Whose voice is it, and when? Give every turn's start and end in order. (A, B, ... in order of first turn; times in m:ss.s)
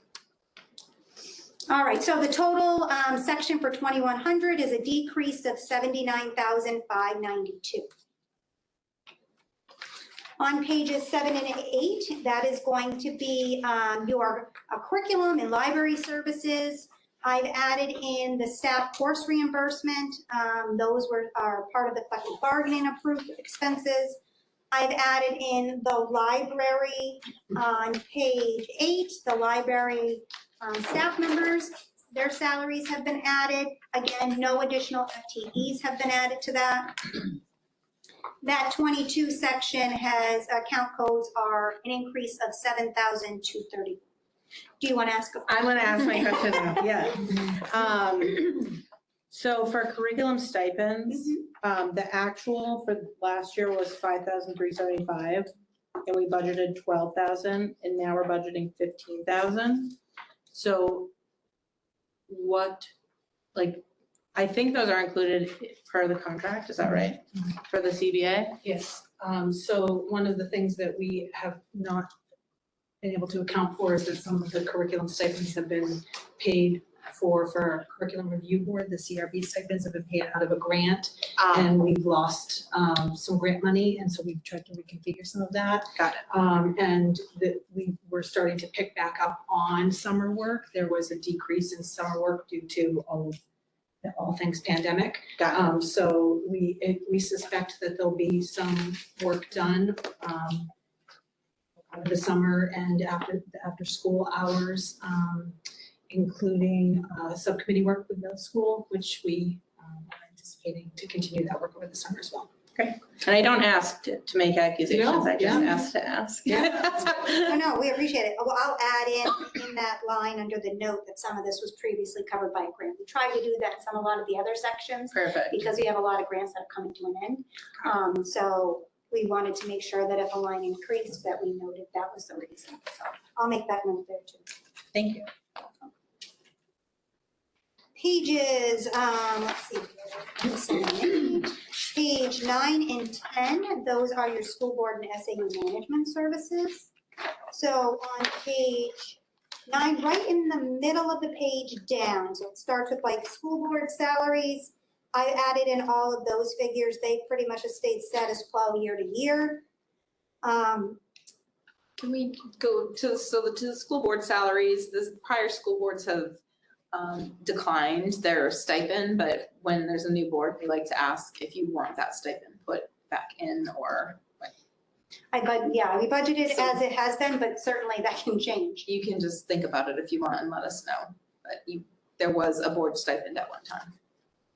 0:01.7-0:07.9 A
0:10.4-0:24.2 A
0:24.7-0:37.3 A
0:38.4-0:44.0 A
0:44.8-0:46.9 A
0:45.5-0:55.5 B
0:51.1-0:51.4 A
0:56.0-1:00.0 B
1:00.5-1:01.1 B
1:02.3-1:02.9 B
1:03.6-1:03.8 B
1:04.4-1:08.6 B
1:08.6-1:12.1 C
1:13.0-1:33.4 C
1:21.4-1:21.7 B
1:26.0-1:26.2 B
1:34.0-1:40.7 C
1:41.9-1:45.6 C
1:46.1-1:52.5 C
1:52.8-1:57.6 B
1:54.9-1:55.8 C
1:56.5-1:57.0 C
1:57.1-2:14.5 A
2:05.1-2:05.6 B
2:14.9-2:15.3 B
2:18.0-2:26.9 A
2:27.5-2:39.6 A
2:40.4-2:41.0 A
2:42.0-2:46.4 D
2:46.9-2:54.5 D
2:55.3-2:58.9 A
2:58.9-3:03.9 D